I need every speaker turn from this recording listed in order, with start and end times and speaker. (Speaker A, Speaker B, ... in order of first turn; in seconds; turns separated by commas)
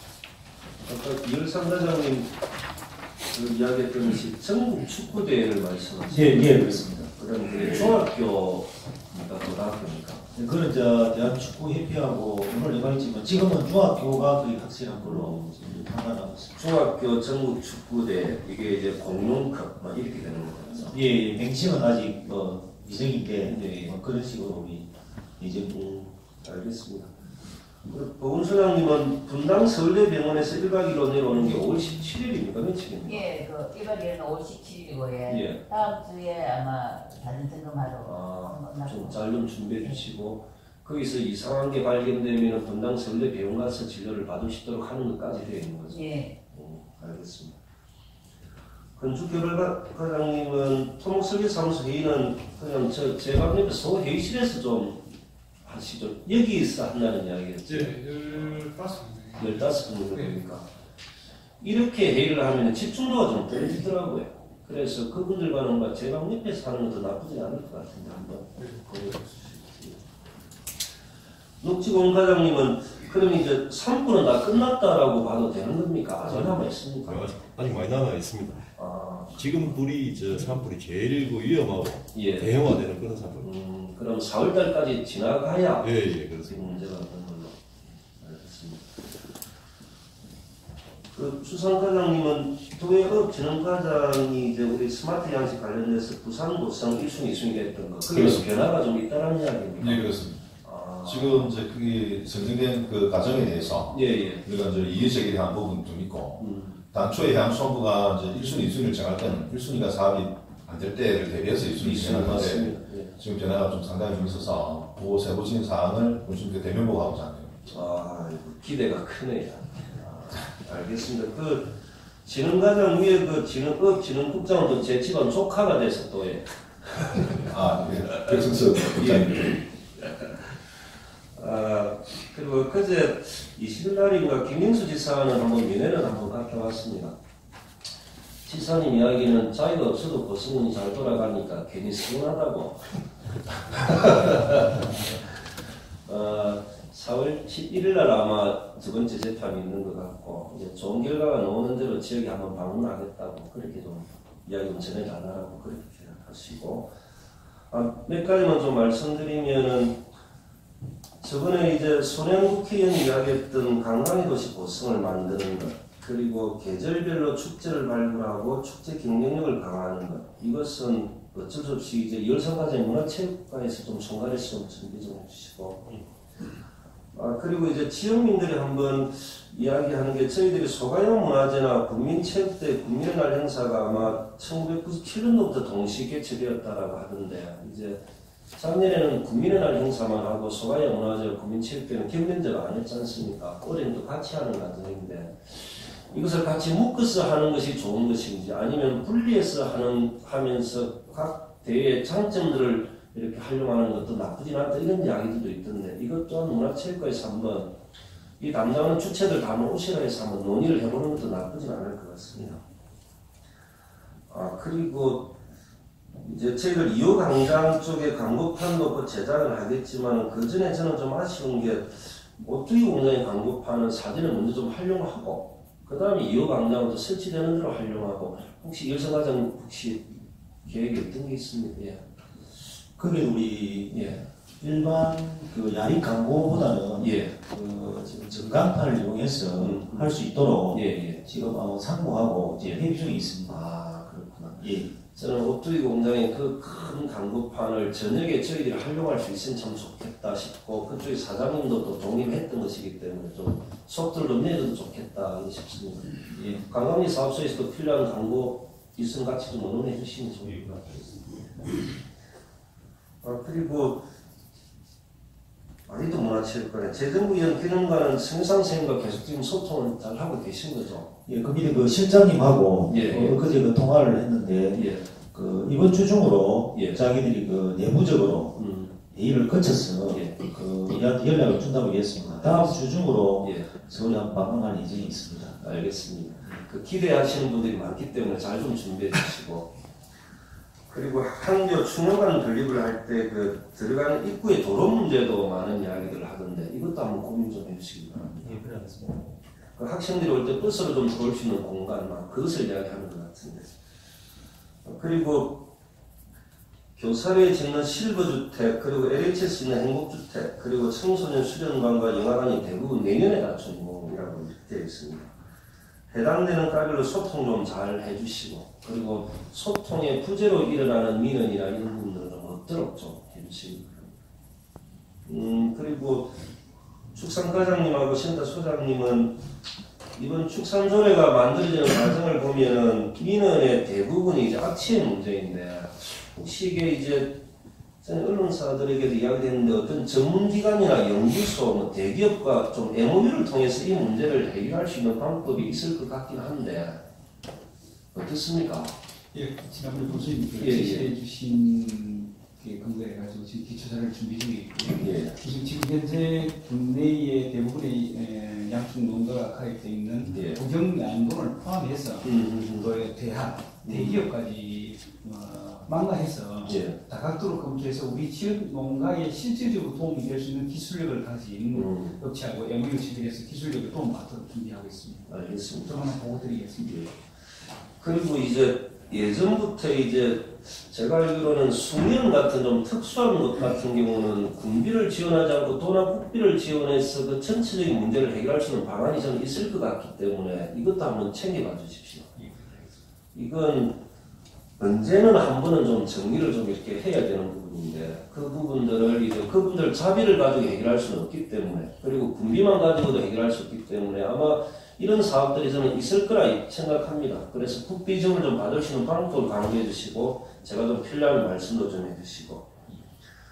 Speaker A: 0.8-2.3, Speaker A: 3.3-6.5, Speaker B: 6.1-7.1, Speaker A: 7.1-10.2, Speaker B: 10.3-16.6, Speaker A: 16.6-20.9, Speaker B: 20.9-24.9, Speaker A: 23.4-23.9, Speaker B: 25.4-25.8, Speaker A: 25.7-27.1, Speaker A: 27.9-33.3, Speaker C: 33.0-39.1, Speaker A: 35.3-35.6, Speaker A: 38.0-47.6, Speaker C: 45.9-46.3, Speaker A: 49.0-55.0, Speaker A: 55.6-58.6, Speaker A: 59.4-60.7, Speaker A: 61.6-70.0, Speaker A: 71.6-77.2, Speaker D: 77.0-77.4, Speaker E: 77.2-78.6, Speaker A: 78.8-79.7, Speaker E: 79.4-83.5, Speaker D: 79.8-81.8, Speaker A: 82.1-82.5, Speaker D: 82.5-83.2, Speaker A: 83.4-85.9, Speaker E: 85.8-86.4, Speaker A: 86.5-87.6, Speaker A: 88.2-88.8, Speaker A: 91.1-100.1, Speaker D: 98.1-98.4, Speaker D: 99.8-100.5, Speaker A: 100.6-101.5, Speaker D: 101.0-117.5, Speaker A: 103.9-104.4, Speaker A: 106.4-106.8, Speaker A: 111.8-113.1, Speaker A: 117.7-121.7, Speaker A: 122.2-126.4, Speaker A: 127.0-127.5, Speaker D: 127.5-129.6, Speaker A: 128.1-130.2, Speaker A: 131.3-137.2, Speaker A: 138.4-142.8, Speaker A: 143.8-144.9, Speaker A: 146.1-156.9, Speaker A: 157.7-160.0, Speaker A: 161.2-175.9, Speaker A: 177.1-188.0, Speaker A: 188.6-207.7, Speaker A: 208.4-212.6, Speaker A: 214.3-215.3, Speaker A: 216.2-232.0, Speaker B: 233.0-233.9, Speaker A: 233.9-234.2, Speaker B: 234.6-243.6, Speaker A: 237.0-237.3, Speaker A: 239.6-240.1, Speaker A: 240.7-241.2, Speaker A: 243.4-261.2, Speaker B: 244.6-244.9, Speaker B: 256.3-256.6, Speaker A: 263.2-264.0, Speaker A: 265.9-271.1, Speaker B: 271.2-285.6, Speaker A: 272.9-273.4, Speaker A: 274.7-275.1, Speaker A: 276.7-277.0, Speaker A: 278.5-278.9, Speaker A: 280.1-280.4, Speaker A: 283.4-283.7, Speaker A: 285.6-289.7, Speaker A: 290.9-298.6, Speaker A: 299.8-303.7, Speaker A: 304.8-305.6, Speaker A: 306.9-315.3, Speaker A: 316.1-324.1, Speaker A: 325.2-326.3, Speaker A: 327.1-329.3, Speaker A: 330.1-337.4, Speaker A: 338.0-347.0, Speaker A: 348.1-348.9, Speaker F: 349.3-377.1, Speaker A: 350.6-351.1, Speaker A: 354.9-355.4, Speaker A: 360.3-360.6, Speaker A: 362.2-362.9, Speaker A: 363.8-364.2, Speaker A: 366.6-367.0, Speaker A: 371.7-372.2, Speaker A: 375.3-376.0, Speaker A: 378.0-392.3, Speaker A: 393.3-394.0, Speaker A: 394.8-412.7